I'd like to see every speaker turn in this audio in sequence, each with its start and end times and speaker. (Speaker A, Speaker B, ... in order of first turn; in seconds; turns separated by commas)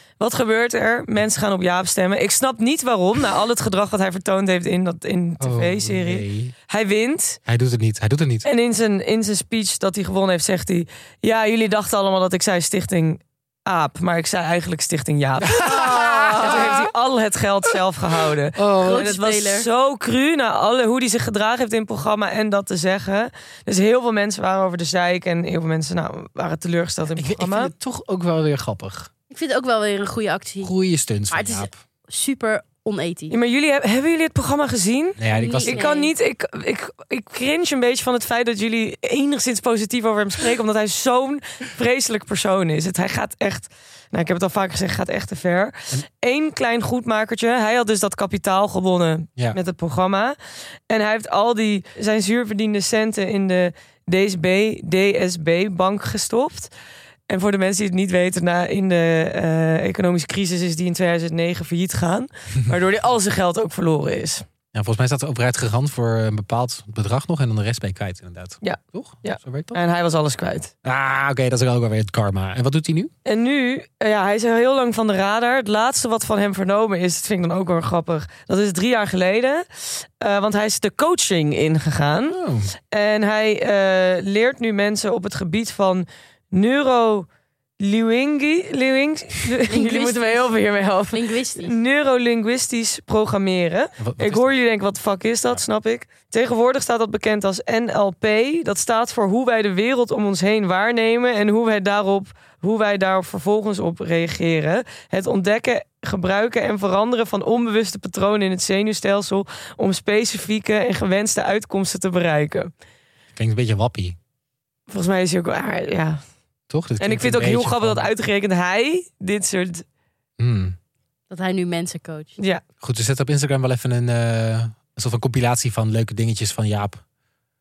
Speaker A: 0.2-7.4, Speaker B: 5.4-6.5, Speaker B: 7.5-8.5, Speaker A: 8.4-27.7, Speaker B: 15.4-16.9, Speaker B: 18.6-19.1, Speaker C: 18.8-19.7, Speaker B: 27.1-29.1, Speaker C: 29.3-30.7, Speaker B: 30.6-31.8, Speaker C: 31.3-33.4, Speaker A: 33.3-50.4, Speaker B: 35.2-35.8, Speaker C: 35.3-36.1, Speaker A: 50.9-56.7, Speaker A: 57.3-64.4, Speaker B: 64.7-69.8, Speaker A: 68.6-70.7, Speaker B: 70.8-73.1, Speaker A: 73.2-87.3, Speaker B: 82.3-82.7, Speaker A: 87.8-112.7, Speaker C: 89.7-91.8, Speaker B: 94.0-94.5, Speaker B: 113.4-114.2, Speaker A: 114.9-116.2, Speaker B: 116.7-118.1, Speaker A: 117.0-119.9, Speaker B: 120.4-120.8, Speaker C: 121.3-122.3, Speaker A: 122.4-122.6, Speaker B: 122.8-127.0